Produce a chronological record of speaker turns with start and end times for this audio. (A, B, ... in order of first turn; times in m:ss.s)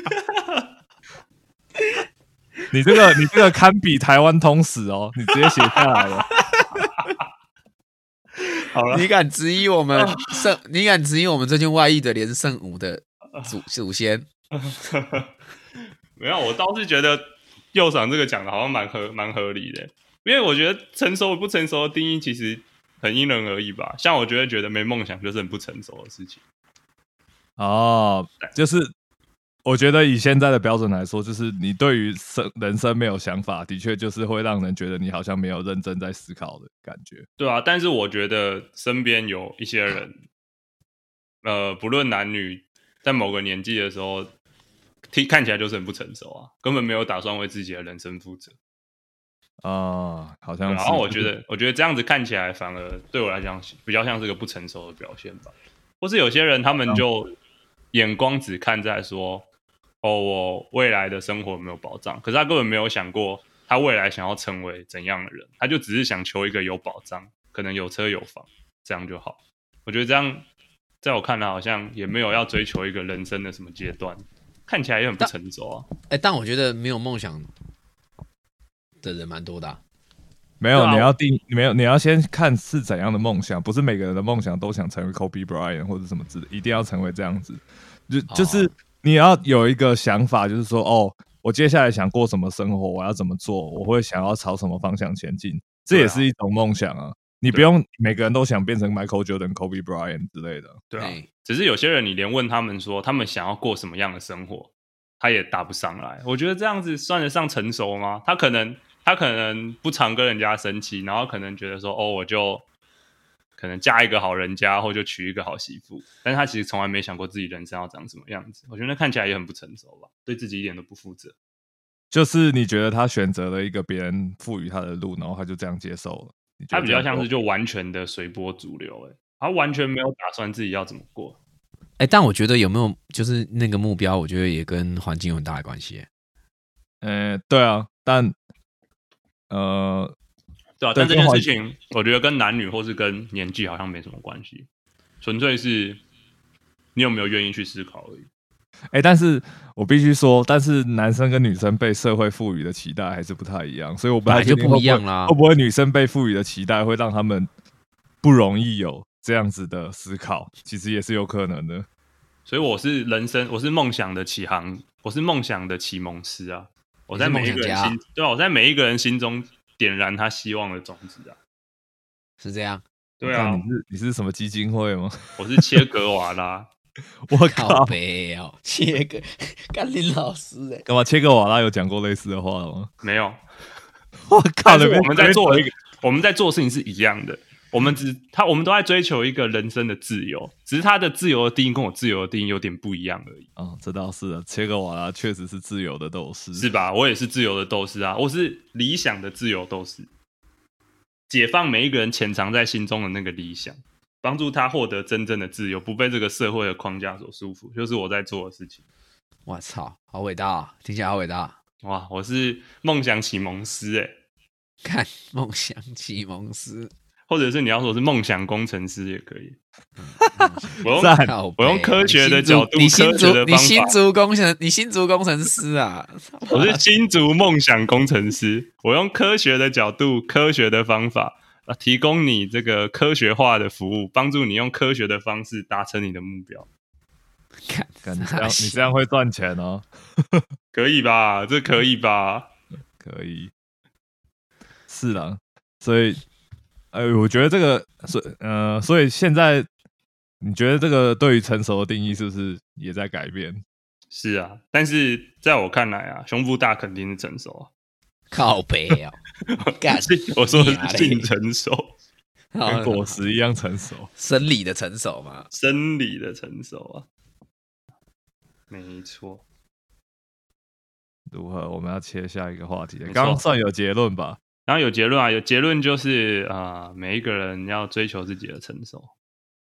0:02.7-0:06.3 A
0:06.5-0:06.9 B
0:06.8-0:07.2 C
0:08.6-0:09.1 C
0:08.9-0:14.3 B
0:09.9-0:10.4 C
0:14.6-0:15.3 C
0:16.2-0:26.4 C
0:27.6-0:28.9 A
0:29.7-0:37.3 A
0:37.4-0:40.2 C
0:41.4-0:44.3 C
0:45.1-0:48.6 C
0:49.6-0:51.3 A
0:50.6-0:57.4 C
0:57.9-0:59.5 C
1:00.0-1:10.5 C
1:11.0-1:15.9 C
1:16.1-1:17.5 B
1:19.0-1:19.8 B
1:20.6-1:40.8 A
1:20.7-1:21.1 C
1:28.3-1:28.7 B
1:35.9-1:36.2 C
1:40.9-1:52.7 C
1:41.0-1:41.3 B
1:53.6-2:01.4 C
2:02.1-2:07.3 A
2:06.7-2:11.4 C
2:12.0-2:16.1 B
2:17.0-2:18.4 A
2:19.5-2:20.2 A
2:20.8-2:24.7 C
2:20.9-2:21.5 A
2:25.2-2:26.0 C
2:27.0-2:28.3 C
2:28.9-2:37.5 A
2:34.3-2:35.4 B
2:38.2-2:41.9 A
2:42.5-2:51.4 C
2:47.1-2:48.0 B
2:52.4-2:52.8 B
2:53.2-2:53.6 C
2:53.2-2:55.8 A
2:55.4-2:56.7 C
2:57.3-2:58.0 A
2:57.4-3:00.9 B
3:00.9-3:02.9 A
3:03.0-3:03.4 C
3:04.3-3:05.7 A
3:04.6-3:13.5 C
3:13.6-3:16.7 A
3:16.6-3:20.1 C
3:21.3-3:28.8 C
3:29.5-3:31.6 B
3:31.8-3:34.1 C
3:34.8-3:36.9 B
3:37.3-3:39.6 C
3:40.0-3:46.8 B
3:40.4-3:41.3 A
3:40.8-3:44.0 C
3:46.5-3:56.7 C
3:57.7-3:58.9 B
3:58.0-4:00.4 A
4:00.7-4:02.5 C
4:03.0-4:03.5 A
4:04.9-4:06.2 A
4:06.9-4:09.7 A
4:10.4-4:13.6 A
4:14.1-4:17.7 C
4:18.3-4:19.2 B
4:19.5-4:22.0 C
4:19.8-4:21.3 B
4:22.5-4:23.2 B
4:22.7-4:24.1 A
4:24.2-4:25.5 B
4:25.5-4:27.1 C
4:28.7-4:29.4 C
4:31.3-4:34.4 A
4:33.1-4:33.4 C
4:34.7-4:39.1 C